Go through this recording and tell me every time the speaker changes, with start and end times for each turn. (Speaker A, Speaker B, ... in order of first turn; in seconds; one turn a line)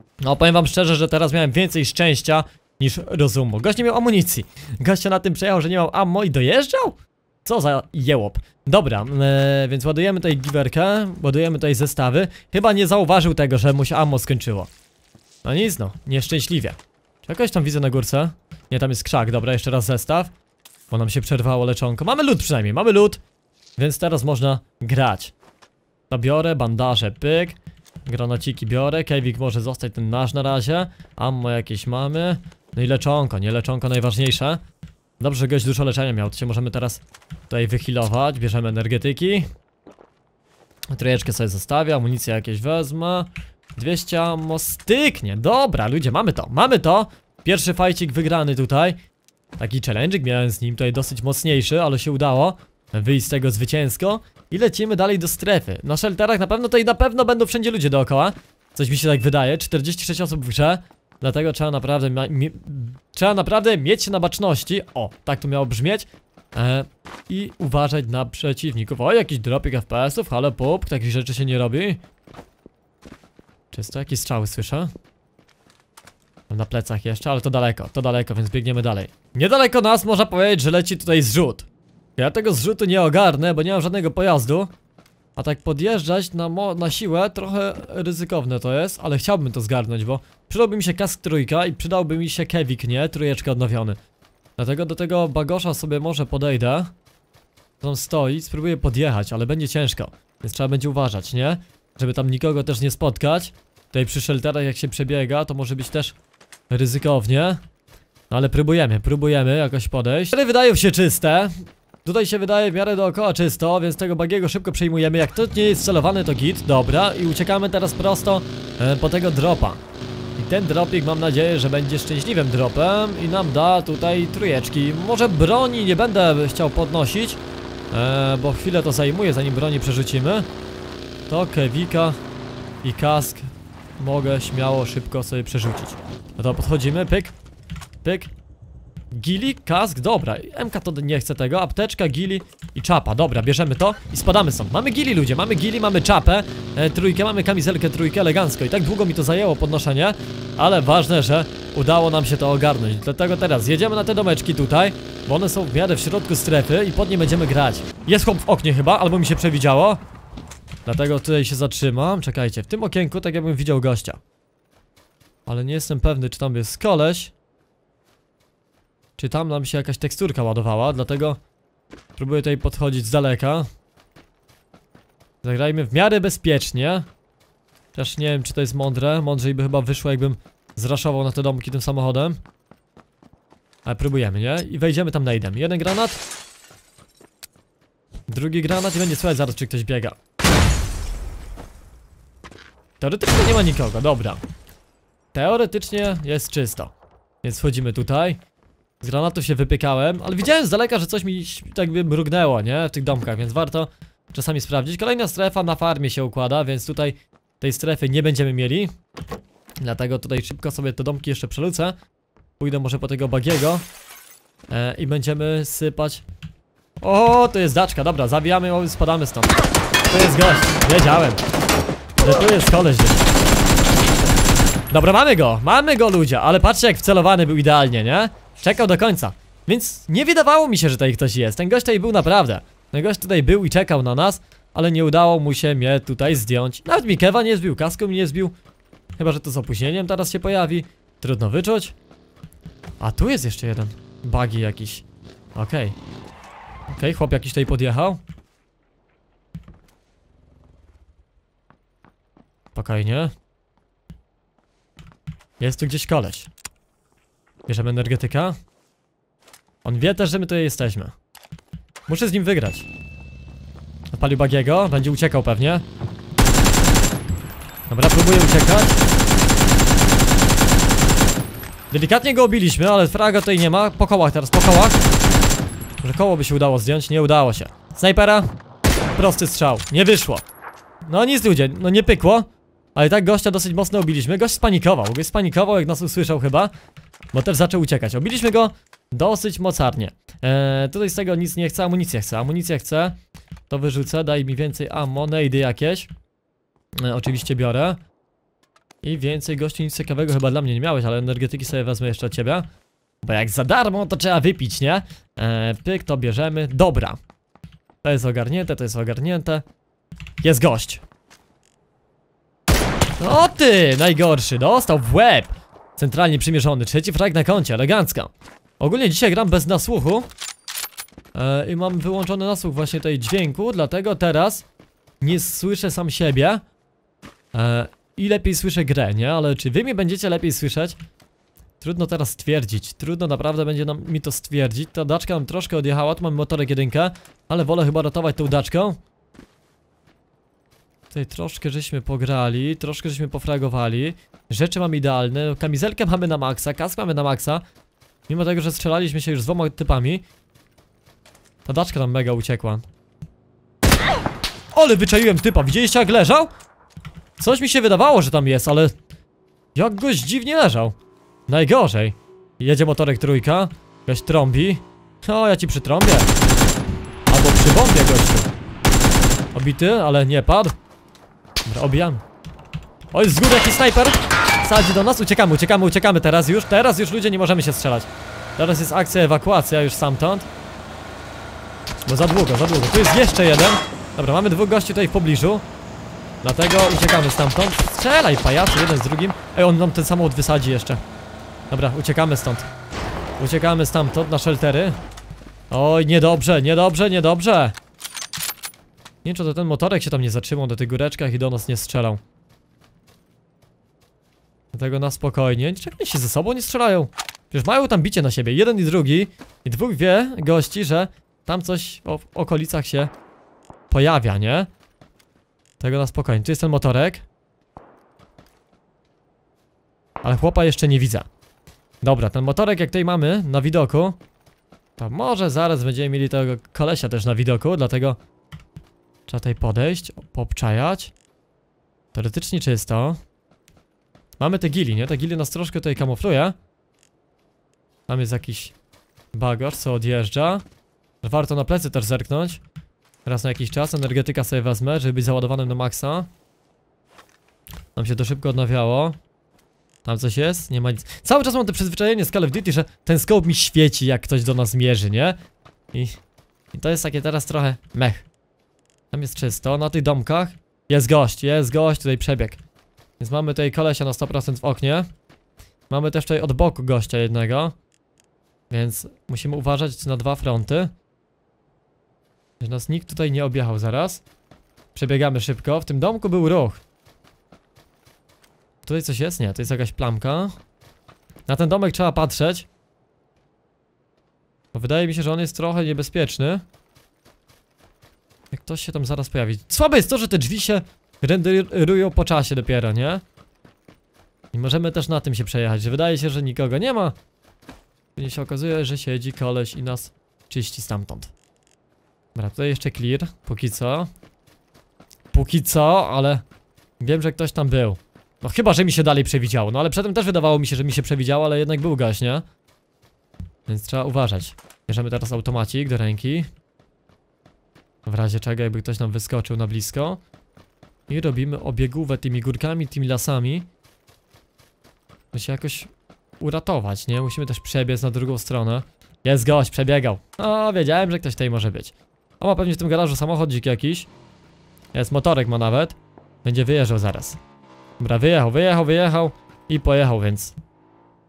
Speaker A: 0.2-14.7
Speaker A: 15.4-20.3
Speaker A: 20.9-23.2
Speaker A: 23.8-25.3
Speaker A: 26.1-34.6
Speaker A: 35.2-39.5
Speaker A: 40.9-49.0
Speaker A: 49.6-72.0
Speaker A: 73.7-74.9
Speaker A: 76.5-84.7
Speaker A: 85.4-94.0
Speaker A: 94.6-96.9
Speaker A: 97.8-106.2
Speaker A: 106.7-107.6
Speaker A: 108.3-119.8
Speaker A: 120.4-127.4
Speaker A: 127.9-130.5
Speaker A: 131.3-132.2
Speaker A: 132.8-137.3
Speaker A: 138.0-138.3
Speaker A: 139.1-160.0
Speaker A: 160.8-164.2
Speaker A: 165.5-167.3
Speaker A: 169.2-171.4
Speaker A: 172.2-173.7
Speaker A: 175.4-177.1
Speaker A: 177.9-182.4
Speaker A: 183.8-186.2
Speaker A: 188.3-190.2
Speaker A: 193.0-194.4
Speaker A: 195.3-198.4
Speaker A: 199.0-208.9
Speaker A: 209.8-212.0
Speaker A: 212.6-213.8
Speaker A: 214.7-216.2
Speaker A: 217.0-219.6
Speaker A: 220.1-221.4
Speaker A: 222.2-223.2
Speaker A: 224.9-238.5
Speaker A: 239.2-241.9
Speaker A: 243.0-245.0
Speaker A: 245.6-246.0
Speaker A: 246.9-248.2
Speaker A: 252.7-253.3
Speaker A: 255.6-256.5
Speaker A: 257.7-258.6
Speaker A: 259.8-261.1
Speaker A: 262.1-262.9
Speaker A: 264.1-265.8
Speaker A: 267.9-269.0
Speaker A: 271.9-275.0
Speaker A: 276.0-278.5
Speaker A: 279.1-280.4
Speaker A: 281.1-286.7
Speaker A: 287.3-293.2
Speaker A: 293.7-296.1
Speaker A: 297.0-298.0
Speaker A: 299.0-302.7
Speaker A: 303.2-307.2
Speaker A: 308.0-309.6
Speaker A: 310.4-311.0
Speaker A: 313.2-320.3
Speaker A: 321.3-324.6
Speaker A: 325.2-326.6
Speaker A: 327.5-331.0
Speaker A: 331.8-339.0
Speaker A: 341.1-347.6
Speaker A: 348.3-350.2
Speaker A: 351.7-352.8
Speaker A: 354.7-356.5
Speaker A: 357.4-358.9
Speaker A: 359.8-361.0
Speaker A: 361.5-366.3
Speaker A: 367.3-368.5
Speaker A: 369.5-370.8
Speaker A: 371.6-372.2
Speaker A: 373.1-380.5
Speaker A: 382.1-385.6
Speaker A: 386.4-391.0
Speaker A: 391.7-392.7
Speaker A: 393.4-395.0
Speaker A: 395.7-397.8
Speaker A: 399.2-402.2
Speaker A: 404.7-413.1
Speaker A: 413.9-414.7
Speaker A: 415.8-417.2
Speaker A: 420.2-421.3
Speaker A: 422.0-424.2
Speaker A: 425.0-428.2
Speaker A: 429.3-431.1
Speaker A: 432.1-433.2
Speaker A: 434.4-436.6
Speaker A: 438.1-438.7
Speaker A: 439.3-440.6
Speaker A: 441.2-442.6
Speaker A: 443.2-446.3
Speaker A: 448.0-449.2
Speaker A: 450.0-455.4
Speaker A: 455.9-456.2
Speaker A: 456.7-458.3
Speaker A: 459.1-462.6
Speaker A: 463.2-465.1
Speaker A: 465.9-467.7
Speaker A: 468.7-470.9
Speaker A: 472.6-474.2
Speaker A: 474.9-476.8
Speaker A: 478.9-480.6
Speaker A: 481.5-482.7
Speaker A: 484.7-486.6
Speaker A: 488.5-493.2
Speaker A: 494.5-497.2
Speaker A: 498.2-501.3
Speaker A: 502.4-504.1
Speaker A: 505.3-506.4
Speaker A: 507.0-512.5
Speaker A: 513.7-516.5
Speaker A: 518.1-520.2
Speaker A: 521.1-523.7
Speaker A: 525.3-525.9
Speaker A: 526.4-534.1
Speaker A: 534.9-537.4
Speaker A: 538.0-540.5